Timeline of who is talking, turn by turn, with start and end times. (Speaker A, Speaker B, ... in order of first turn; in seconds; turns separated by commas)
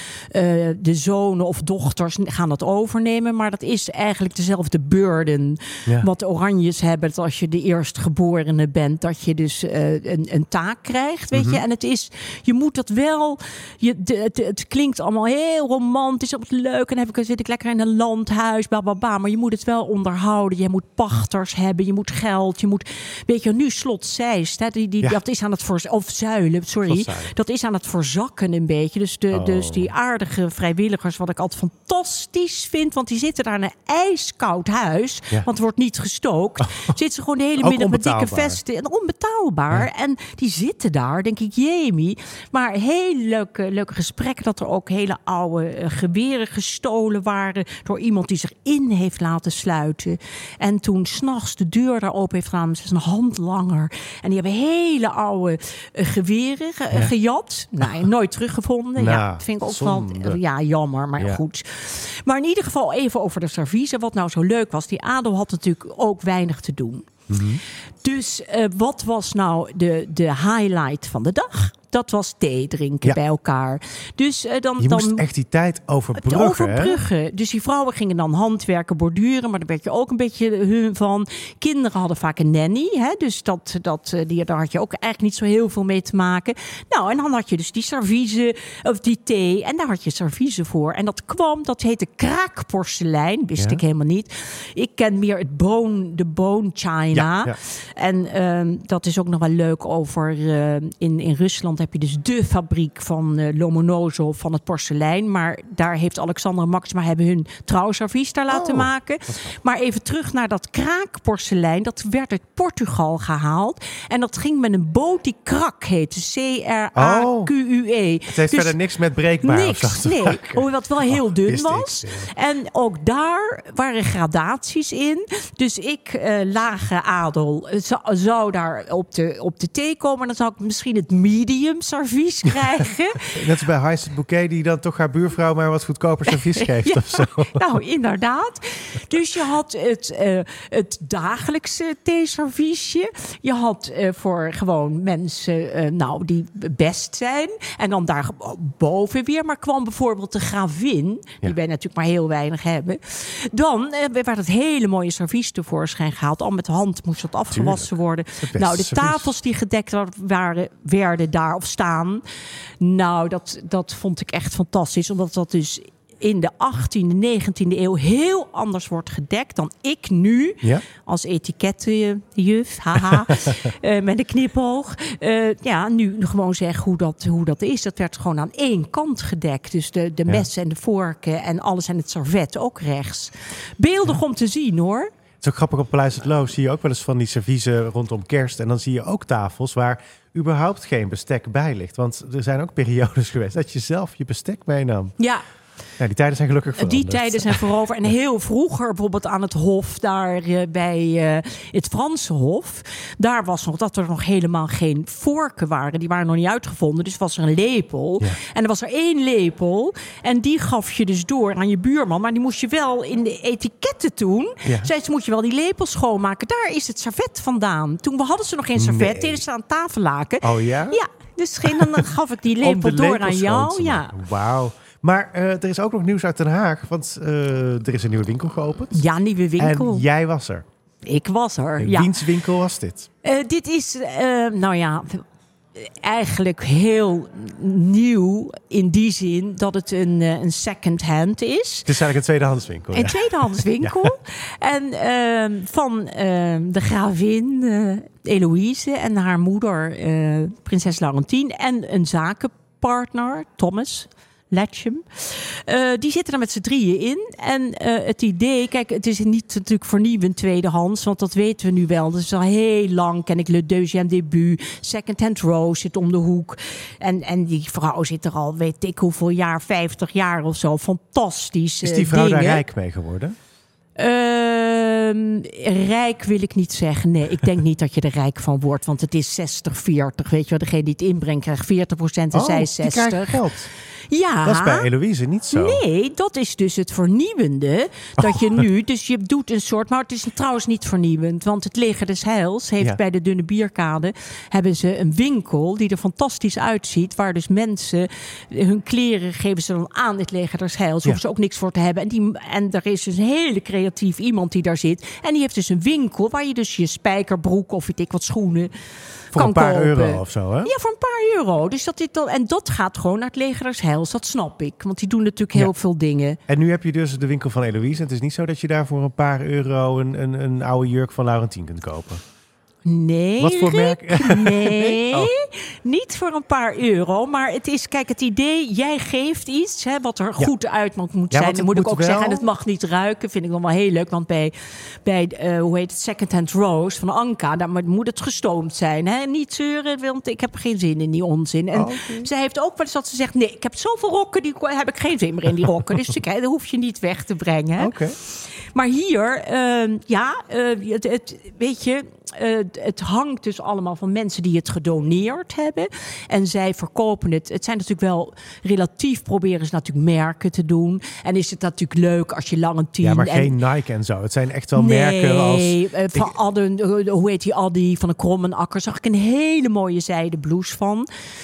Speaker A: 0.3-67.2, Speaker B: 11.3-11.6, Speaker B: 26.8-27.3, Speaker B: 29.3-29.9, Speaker B: 37.6-38.6, Speaker B: 59.0-60.4, Speaker B: 67.3-67.6, Speaker A: 68.0-75.2, Speaker B: 74.8-77.0, Speaker A: 76.2-118.7, Speaker B: 97.1-97.5, Speaker B: 108.5-109.5, Speaker B: 116.9-117.5, Speaker B: 118.3-122.3, Speaker A: 119.4-133.4, Speaker B: 133.3-137.6, Speaker A: 136.3-162.2, Speaker B: 157.5-157.9, Speaker B: 158.4-159.3, Speaker A: 162.8-185.1, Speaker B: 172.9-173.5, Speaker B: 185.4-195.1, Speaker A: 195.2-195.4, Speaker B: 196.0-197.6, Speaker A: 196.8-224.1, Speaker B: 214.6-214.9, Speaker B: 218.8-219.4, Speaker B: 220.4-221.0, Speaker B: 221.6-222.1, Speaker B: 222.6-229.0, Speaker A: 228.9-230.0, Speaker B: 229.6-230.7, Speaker A: 231.0-232.1, Speaker B: 231.8-233.1, Speaker A: 233.2-235.2, Speaker A: 235.7-241.9, Speaker B: 241.8-244.1, Speaker A: 242.9-272.6, Speaker B: 271.8-273.4, Speaker A: 274.0-283.4, Speaker B: 282.3-283.7, Speaker A: 284.1-284.9, Speaker B: 284.4-285.8, Speaker A: 285.5-308.7, Speaker B: 288.2-288.6, Speaker A: 309.3-316.4, Speaker B: 309.3-310.7, Speaker B: 316.5-322.2, Speaker A: 322.8-363.6, Speaker B: 323.4-325.3, Speaker B: 331.3-332.4, Speaker B: 341.7-342.3, Speaker B: 347.8-348.2, Speaker B: 363.0-366.3, Speaker A: 364.8-371.1